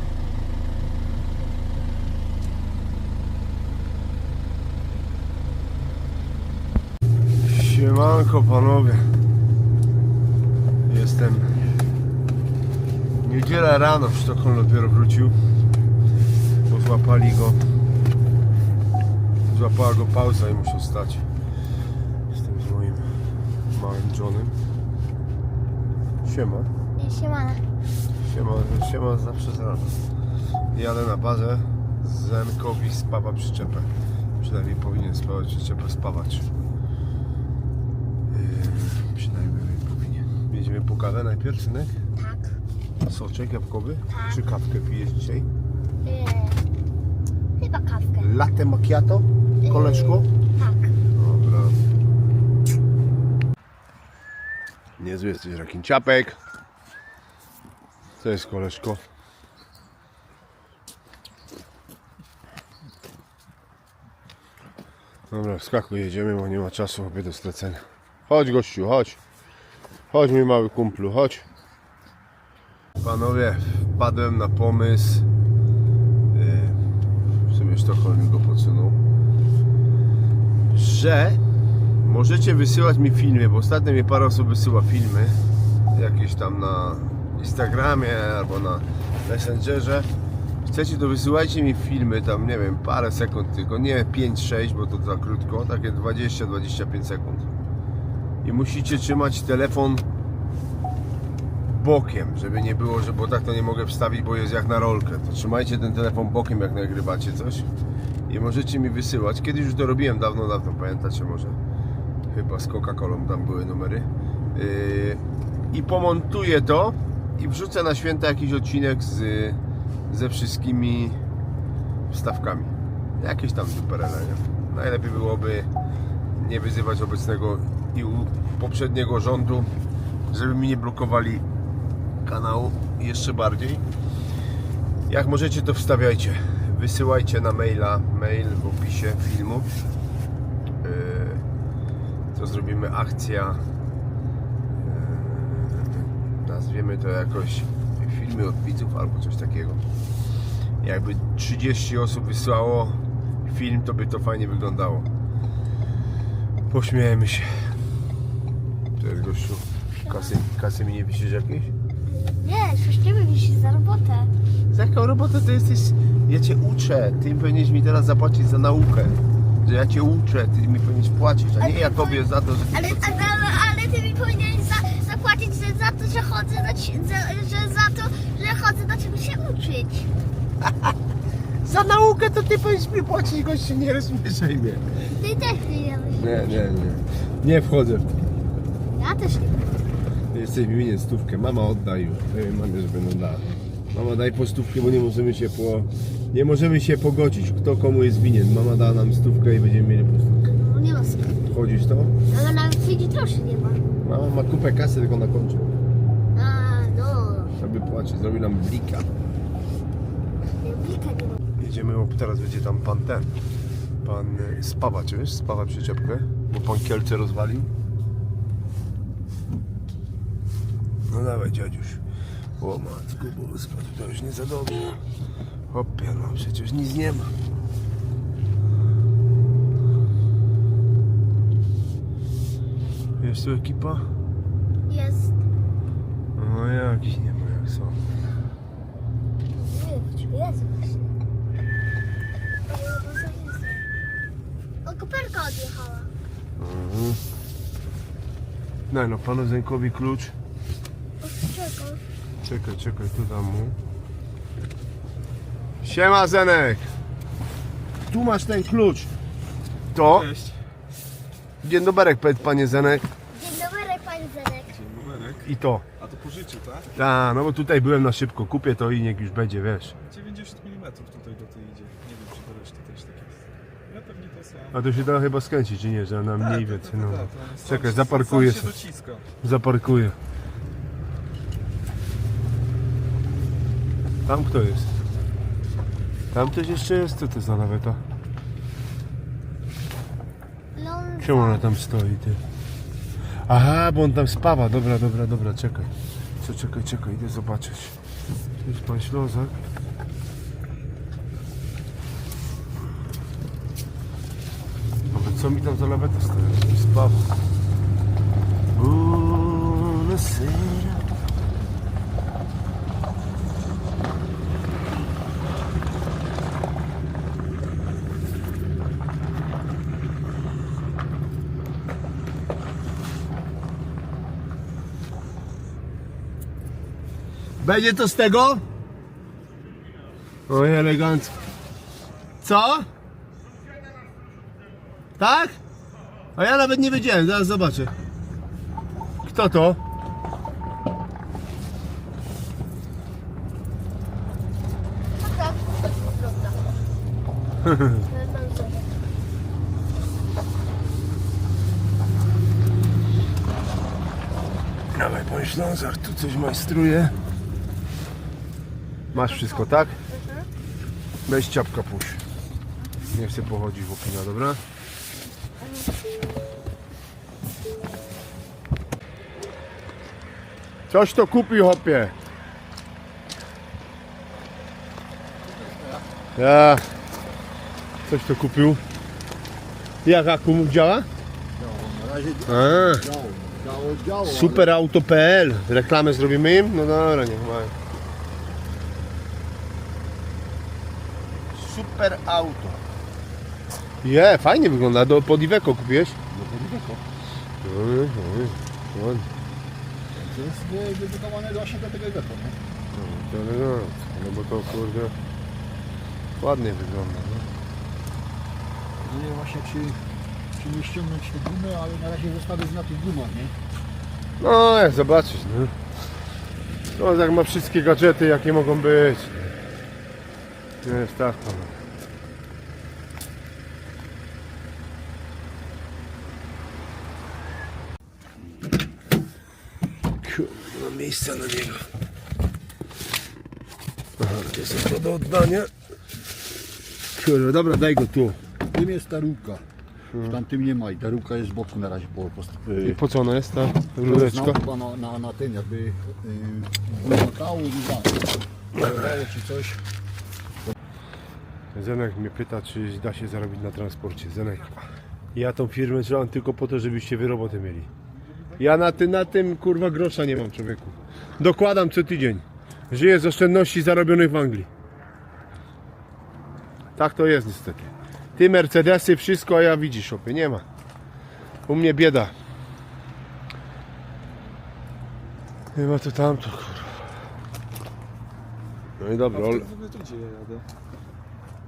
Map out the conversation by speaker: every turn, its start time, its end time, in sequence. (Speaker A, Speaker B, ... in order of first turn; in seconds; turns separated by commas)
Speaker A: 7.4-9.1, Speaker A: 10.9-11.5, Speaker A: 13.2-15.3, Speaker A: 16.7-17.6, Speaker A: 19.5-21.2, Speaker A: 22.3-23.1, Speaker A: 23.7-24.5, Speaker A: 26.2-26.7, Speaker B: 27.0-27.6, Speaker A: 28.2-30.0, Speaker A: 30.7-36.5, Speaker A: 38.3-41.9, Speaker B: 42.1-42.5, Speaker A: 43.0-45.5, Speaker B: 44.1-44.4, Speaker B: 46.0-46.6, Speaker B: 47.6-48.3, Speaker A: 48.2-50.3, Speaker B: 49.6-50.9, Speaker A: 51.1-51.8, Speaker A: 55.0-56.4, Speaker A: 58.2-59.0, Speaker A: 65.3-69.2, Speaker A: 70.1-71.4, Speaker A: 73.0-75.3, Speaker A: 76.3-76.8, Speaker A: 77.5-79.0, Speaker A: 80.7-81.4, Speaker A: 82.0-85.4, Speaker A: 85.9-90.1, Speaker A: 90.6-97.5, Speaker A: 98.4-100.0, Speaker A: 101.7-107.7, Speaker A: 108.3-111.6, Speaker A: 112.3-121.2, Speaker A: 122.1-125.7, Speaker A: 126.4-129.7, Speaker A: 130.3-131.4, Speaker A: 132.2-133.8, Speaker A: 135.1-139.7, Speaker A: 140.8-141.4, Speaker A: 142.3-143.6, Speaker A: 144.7-149.8, Speaker A: 150.8-155.1, Speaker A: 156.7-157.5, Speaker A: 159.0-161.7, Speaker B: 160.0-160.3, Speaker B: 162.1-164.3, Speaker A: 164.7-173.2, Speaker B: 171.6-180.1, Speaker A: 181.6-184.8, Speaker B: 185.2-186.6, Speaker A: 186.1-188.2, Speaker B: 188.9-189.8, Speaker A: 190.3-200.4, Speaker B: 200.4-201.4, Speaker A: 201.4-202.1, Speaker B: 202.3-203.8, Speaker A: 204.0-205.6, Speaker B: 206.3-207.5, Speaker A: 207.6-209.1, Speaker B: 210.6-211.4, Speaker A: 211.6-213.3, Speaker A: 214.0-217.7, Speaker A: 221.1-222.0, Speaker A: 222.6-225.0, Speaker A: 225.7-227.3, Speaker A: 233.2-234.1, Speaker B: 234.9-235.4, Speaker A: 236.4-238.0, Speaker B: 239.5-241.1, Speaker B: 242.7-243.8, Speaker B: 244.8-246.1, Speaker A: 246.6-247.2, Speaker A: 248.9-250.3, Speaker B: 251.2-252.0, Speaker A: 252.4-253.8, Speaker A: 255.8-256.9, Speaker A: 258.1-259.1, Speaker A: 259.9-260.3, Speaker C: 260.0-260.6, Speaker A: 261.6-263.1, Speaker B: 263.3-264.7, Speaker C: 264.7-266.9, Speaker A: 265.4-265.8, Speaker A: 266.9-269.9, Speaker C: 270.0-274.9, Speaker A: 274.7-278.8, Speaker C: 276.4-279.2, Speaker A: 279.4-280.1, Speaker A: 284.2-284.9, Speaker A: 286.3-288.0, Speaker B: 290.8-291.6, Speaker A: 291.2-292.4, Speaker A: 293.5-297.9, Speaker A: 298.6-299.6, Speaker A: 305.1-307.3, Speaker A: 308.7-311.0, Speaker A: 327.6-328.6, Speaker A: 330.5-331.3, Speaker A: 332.4-332.9, Speaker A: 335.2-335.6, Speaker A: 336.4-337.9, Speaker A: 339.2-339.8, Speaker B: 345.2-346.6, Speaker A: 347.6-348.0, Speaker B: 348.1-349.0, Speaker A: 354.9-357.1, Speaker A: 359.1-360.0, Speaker A: 361.3-362.2, Speaker A: 363.1-364.6, Speaker A: 370.9-372.1, Speaker D: 375.5-376.0, Speaker A: 376.4-376.8, Speaker A: 378.1-378.8, Speaker A: 380.0-381.1, Speaker D: 381.6-384.7, Speaker A: 382.5-383.0, Speaker A: 384.2-387.7, Speaker A: 391.5-392.8, Speaker A: 394.0-396.2, Speaker D: 396.3-397.0, Speaker A: 397.6-399.3, Speaker D: 400.1-402.6, Speaker A: 402.9-405.1, Speaker A: 406.4-407.5, Speaker D: 409.0-410.0, Speaker D: 410.6-413.6, Speaker A: 414.4-415.7, Speaker A: 416.9-419.5, Speaker A: 420.8-421.7, Speaker A: 430.2-431.9, Speaker A: 434.2-435.7, Speaker A: 437.1-438.4, Speaker D: 438.7-439.6, Speaker A: 440.1-440.4, Speaker D: 440.2-443.0, Speaker A: 442.8-444.6, Speaker D: 444.0-449.8, Speaker A: 451.7-457.9, Speaker C: 458.3-459.1, Speaker A: 458.6-464.7, Speaker A: 466.9-470.6, Speaker A: 471.7-472.3, Speaker A: 475.7-477.0, Speaker A: 479.0-479.7, Speaker C: 479.2-480.6